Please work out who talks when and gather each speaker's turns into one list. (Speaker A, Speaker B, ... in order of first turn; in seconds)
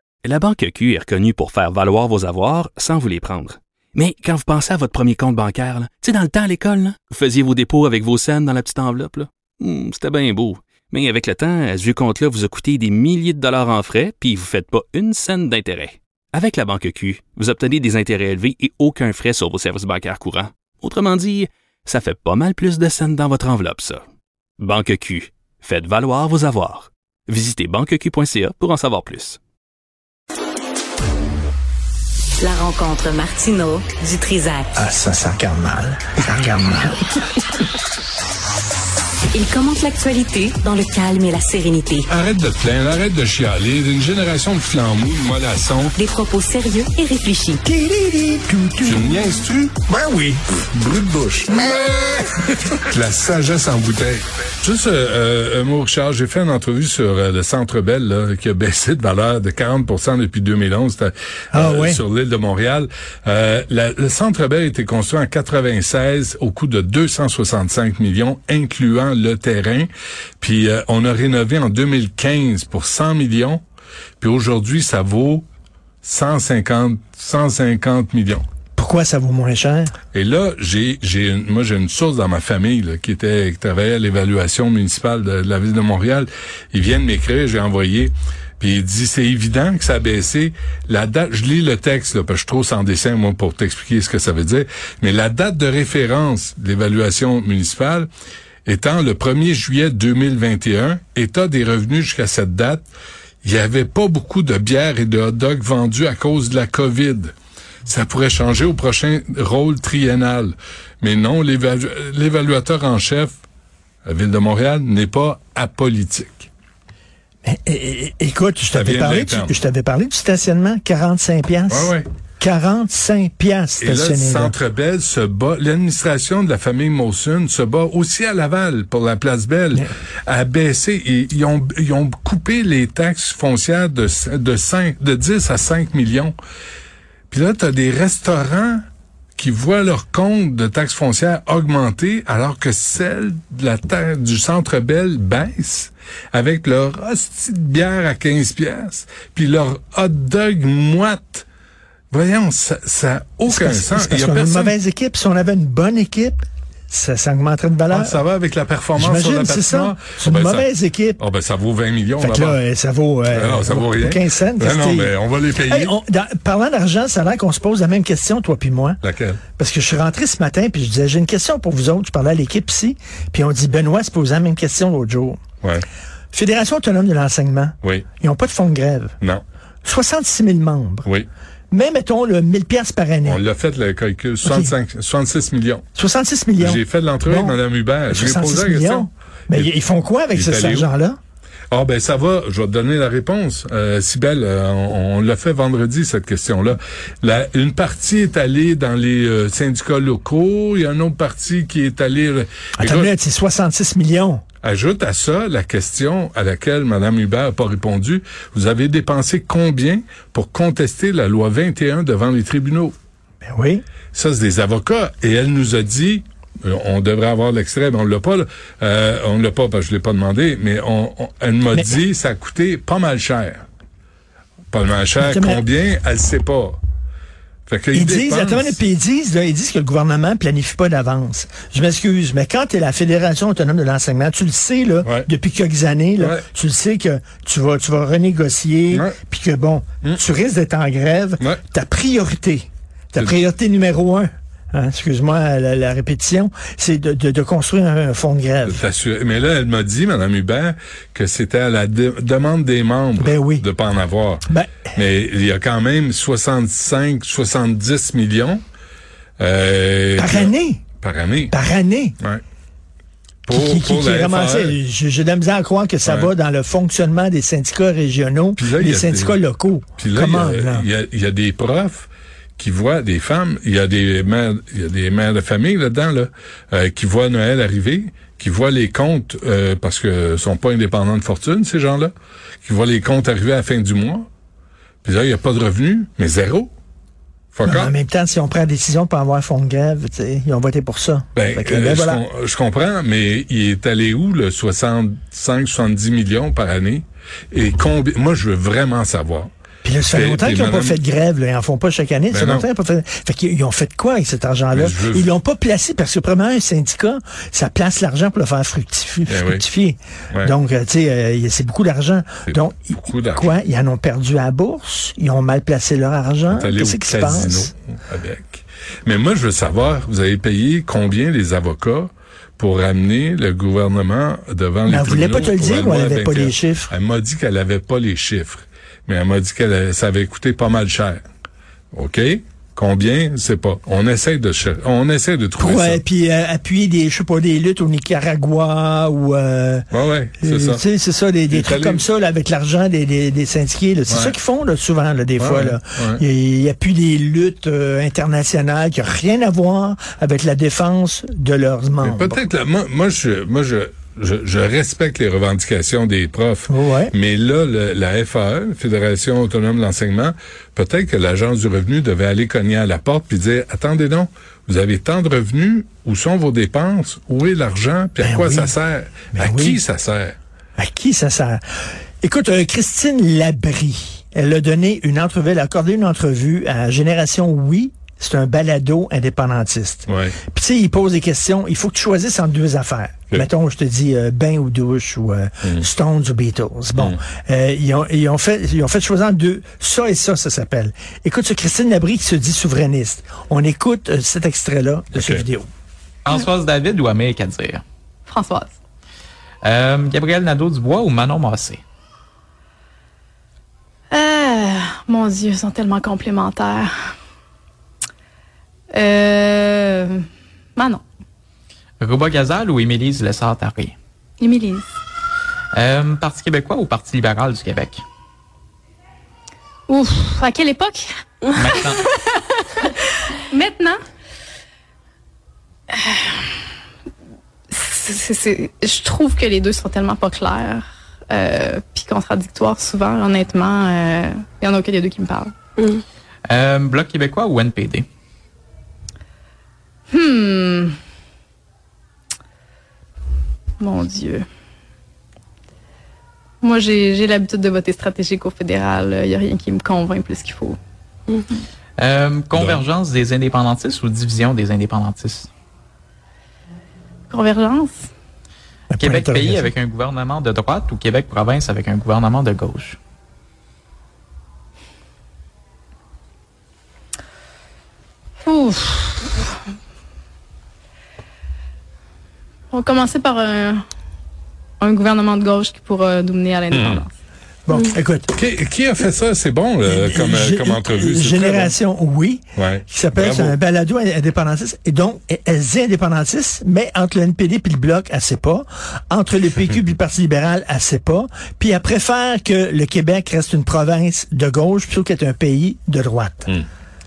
Speaker A: 0.2-24.0, 24.6-29.4
Speaker B: 32.4-34.7, 39.3-42.1, 46.0-47.6
Speaker C: 34.7-37.0, 47.6-49.1, 49.9-50.4, 61.5-62.0, 78.7-79.9, 117.4-124.6, 153.5-156.4, 156.9-158.2, 158.9-161.2, 162.2-165.1, 165.7-169.0, 169.6-175.4, 176.3-179.1, 179.8-181.1, 181.7-183.4, 184.4-184.7, 185.9-191.2, 202.8-204.4, 213.4-213.8, 225.2-225.6, 227.9-248.8, 253.2-253.7, 254.5-254.9, 260.1-260.8, 261.5-262.2, 263.5-270.9, 287.6-292.2, 299.8-317.7, 324.9-326.9, 335.6-339.9, 340.4-352.4, 356.7-357.1, 368.2-368.7, 369.3-369.8, 370.8-371.6, 372.2-395.7, 458.9-459.7, 477.6-478.3, 479.8-496.5
Speaker D: 42.1-46.0, 48.8-49.9, 50.6-52.3, 52.9-69.9, 70.4-73.6, 74.2-75.5, 76.0-78.4, 80.1-98.1, 98.7-102.8, 103.4-107.3, 107.8-113.3, 114.0-116.5, 118.7-119.6, 121.7-122.0, 123.8-136.4, 137.3-138.8, 139.3-151.4, 152.1-154.8, 157.9-162.6, 163.3-165.9, 169.0-169.4, 183.2-185.8, 186.6-189.7, 190.3-190.9, 191.7-203.1, 204.6-212.9, 214.1-223.7, 224.7-226.8, 227.7-228.8, 235.0-235.3, 238.9-239.2, 248.6-258.6, 259.4-261.5, 263.4-264.8, 266.0-266.3, 268.6-269.4, 270.0-282.1, 282.6-284.3, 285.0-286.7, 287.5-287.9, 291.3-299.5, 300.1-301.0, 302.3-302.7, 304.7-305.3, 309.3-309.6, 312.5-313.6, 316.5-331.2, 331.9-336.0, 339.9-340.8, 341.5-342.0, 344.1-344.4, 345.4-346.2, 352.0-370.4, 380.1-380.4, 395.1-395.4, 452.5-452.8, 476.7-477.0, 478.3-481.8, 482.6-483.6
Speaker E: 396.2-397.8, 399.6-401.8, 412.0-413.9, 415.8-418.0, 421.6-422.1, 436.5-438.1, 452.0-455.5, 459.0-463.0
Speaker F: 398.3-398.7, 404.1-406.9, 408.9-410.1, 410.8-411.0, 414.4-414.8, 419.9-421.0, 421.5-422.1, 423.5-424.0, 425.9-426.3, 427.7-435.5, 440.1-440.9, 443.8-444.4, 446.6-450.8, 457.3-458.0, 468.4-469.4, 472.7-473.8, 474.8-477.1